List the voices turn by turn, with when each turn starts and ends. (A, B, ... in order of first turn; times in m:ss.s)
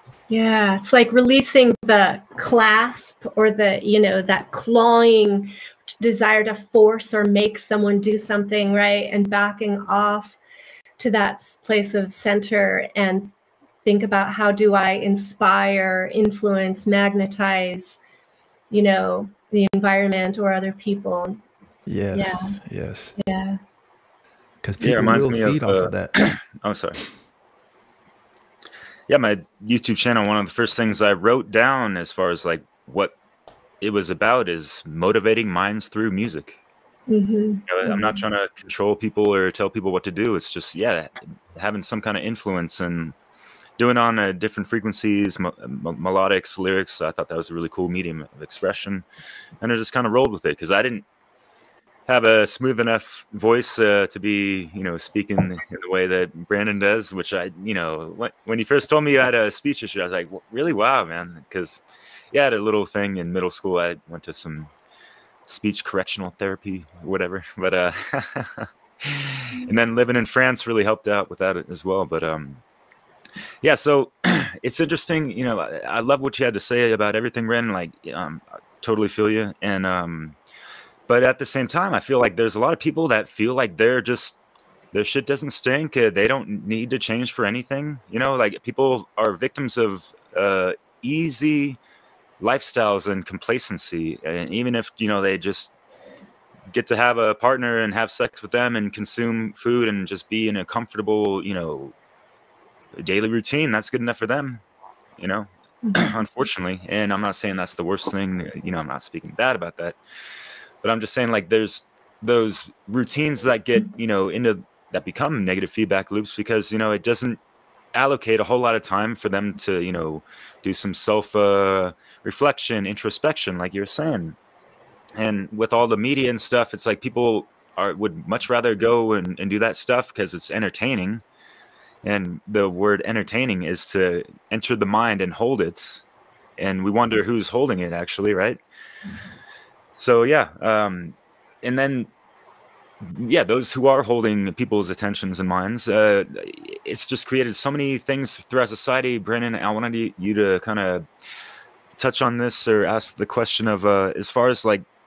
0:00.3-0:10.4 A
0:11.0-0:13.3 A
0:13.8-0:18.0 A
0:18.7-0:21.4 A
0:21.9-0:23.1 B
0:22.1-0:22.5 A
0:23.2-0:23.6 A
0:24.6-0:26.1 B
0:24.8-0:27.0 C
0:29.1-0:33.1 C
0:33.8-0:36.6 C
0:37.1-0:38.2 A
0:37.7-0:43.1 C
0:43.8-0:49.0 C
0:49.6-0:51.0 C
0:52.1-1:01.8 C
1:02.3-1:04.7 C
1:05.5-1:12.6 C
1:13.6-1:20.4 C
1:21.1-1:24.4 C
1:24.9-1:31.8 C
1:32.4-1:35.7 C
1:36.7-1:41.9 C
1:42.9-1:44.6 C
1:45.2-1:50.0 C
1:50.8-1:57.4 C
1:57.9-2:04.4 C
2:05.2-2:11.2 C
2:12.0-2:16.0 C
2:16.6-2:18.6 C
2:20.0-2:22.1 C
2:23.0-2:31.1 C
2:32.0-2:34.8 C